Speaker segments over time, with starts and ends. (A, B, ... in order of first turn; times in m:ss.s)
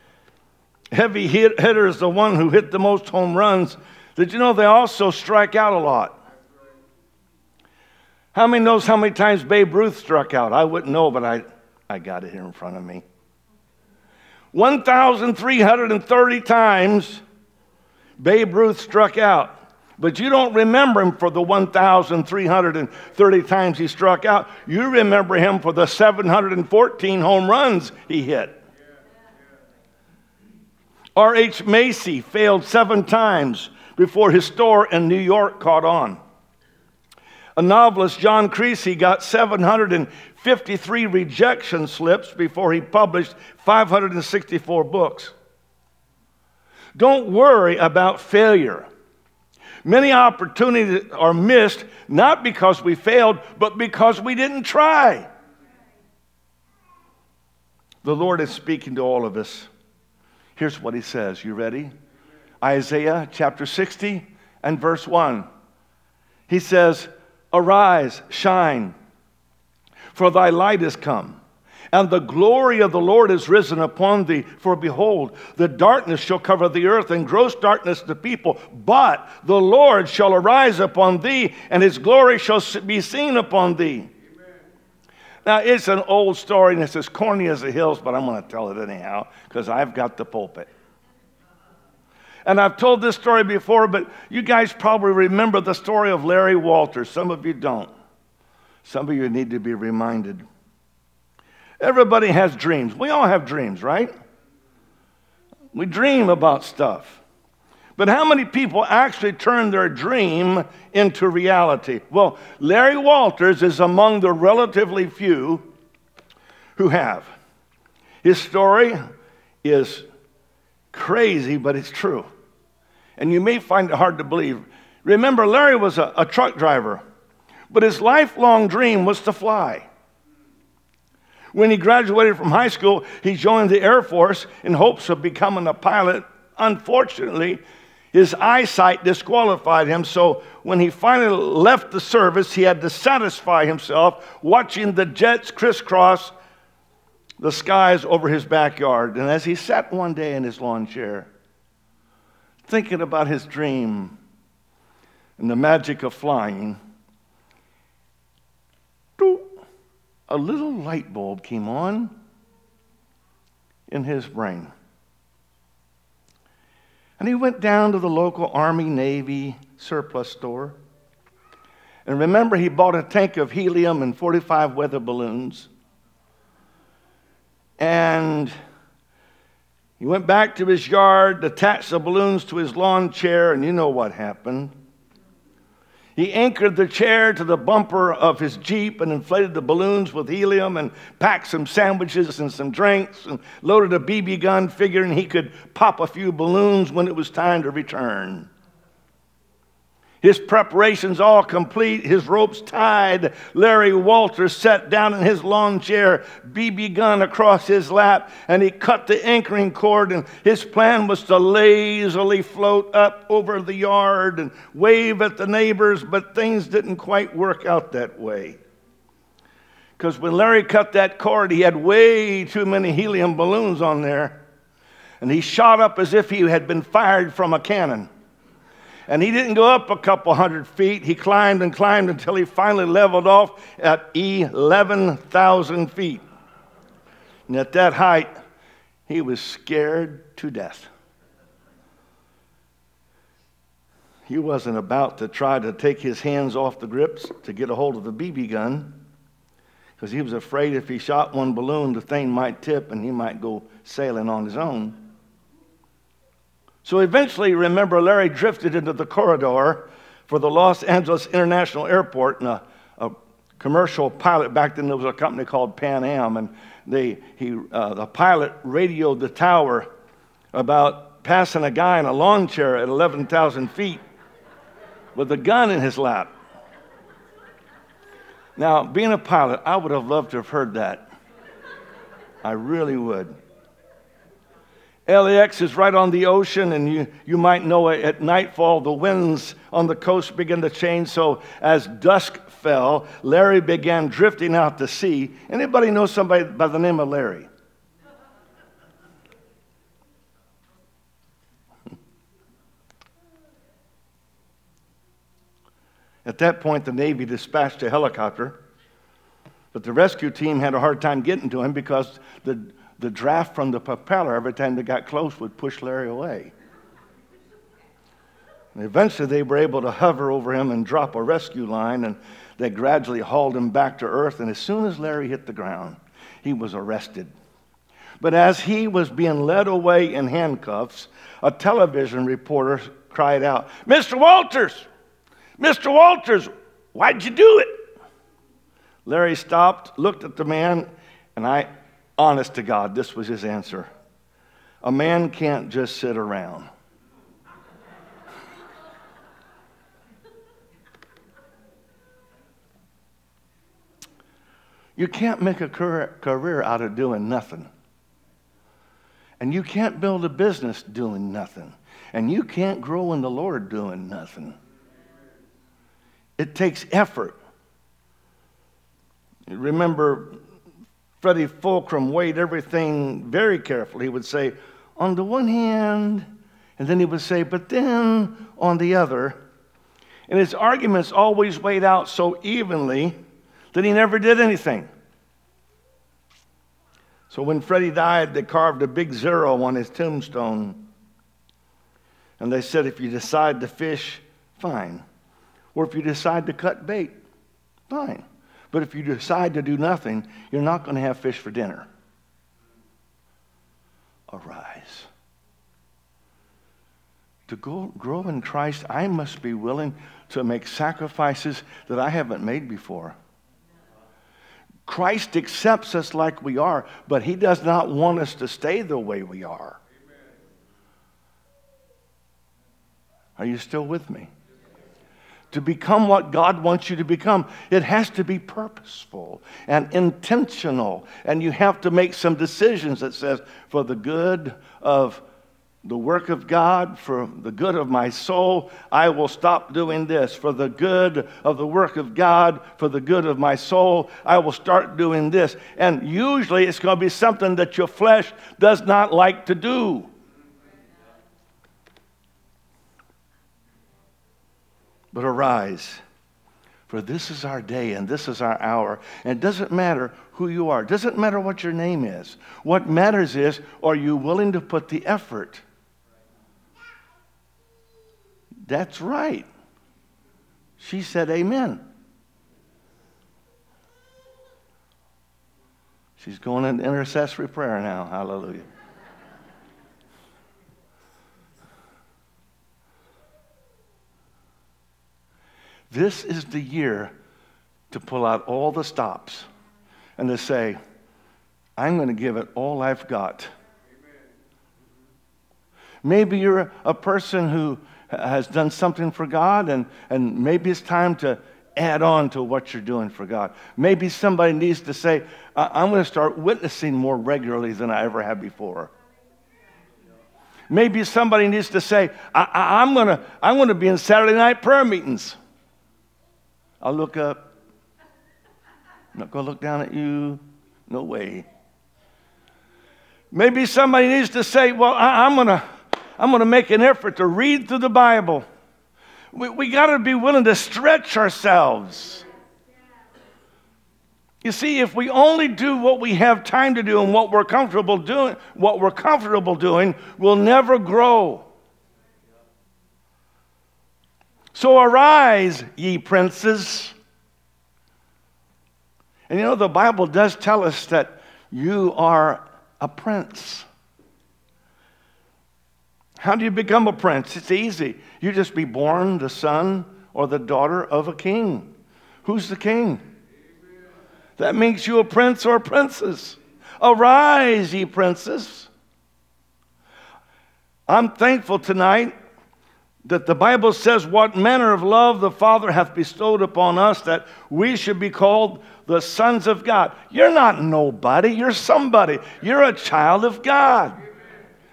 0:00.9-0:06.2 A
0:08.3-0:13.0 A
0:14.5-0:17.2 A
0:18.2-0:28.6 A
0:31.2-0:36.2 A
0:37.6-0:45.3 A
0:46.9-0:48.9 A
0:49.8-0:55.3 A
0:58.0-0:59.7 A
1:00.6-1:01.9 A
1:02.6-1:05.4 A
1:06.5-1:08.9 A
1:10.1-1:11.4 A
1:11.9-1:24.1 A
1:25.4-1:30.7 A
1:32.4-1:37.9 A
1:38.8-1:40.4 A
1:41.8-1:44.1 A
1:45.7-1:47.2 A
1:48.0-1:55.7 A
1:56.8-1:57.3 A
1:58.2-1:59.0 A
1:59.6-2:00.0 A
2:00.9-2:02.3 A
2:03.2-2:07.0 A
2:07.7-2:09.9 A
2:11.5-2:17.6 A
2:18.1-2:26.3 A
2:27.4-2:31.3 A
2:32.6-2:34.2 A
2:35.4-2:36.8 A
2:39.2-2:39.6 A
2:40.3-2:42.1 A
2:43.9-2:44.7 A
2:47.2-2:50.8 A
2:52.0-2:55.7 A
2:57.8-2:58.5 A
3:00.0-3:04.7 A
3:06.2-3:18.5 A
3:20.2-3:38.6 A
3:40.0-3:44.4 A
3:45.2-3:48.1 A
3:49.1-3:56.2 A
3:57.5-3:58.3 A
3:59.1-4:00.9 A
4:04.3-4:09.0 A
4:10.0-4:15.0 A
4:16.8-4:29.9 A
4:30.5-4:34.0 A
4:35.1-4:36.3 A
4:38.6-4:41.1 A
4:42.4-4:43.3 A
4:45.1-4:57.5 A
5:06.2-5:08.6 A
5:09.7-5:16.5 A
5:18.7-5:27.3 A
5:28.2-5:34.9 A
5:35.6-5:37.8 A
5:39.0-5:43.9 A
5:44.8-5:46.7 A
5:55.0-5:57.7 A
5:59.4-6:04.6 A
6:06.4-6:07.4 A
6:09.5-6:10.4 A
6:11.2-6:16.2 A
6:16.8-6:19.4 A
6:20.3-6:23.1 A
6:23.7-6:24.9 A
6:27.3-6:30.8 A
6:32.4-6:35.0 A
6:35.7-6:37.2 A
6:37.9-6:41.9 A
6:44.3-6:45.1 A
6:47.5-6:53.2 A
6:54.8-6:59.8 A
7:03.4-7:04.3 A
7:05.5-7:15.2 A
7:15.8-7:30.1 A
7:35.1-7:36.0 A
7:36.9-7:45.6 A
7:48.7-7:49.5 A
7:50.8-7:51.8 A
7:56.2-7:58.7 A
8:05.9-8:07.1 A
8:07.9-8:09.5 A
8:10.2-8:10.8 A
8:11.8-8:13.5 A
8:16.0-8:28.9 A
8:30.7-8:35.4 A
8:36.8-8:37.5 A
8:39.1-8:41.4 A
8:43.3-8:45.6 A
8:46.2-8:48.4 A
8:49.3-8:52.2 A
8:54.4-9:01.4 A
9:04.5-9:06.9 A
9:09.3-9:13.6 A
9:16.2-9:21.7 A
9:22.2-9:23.0 A
9:24.4-9:28.7 A
9:30.9-9:32.1 A
9:33.0-9:44.0 A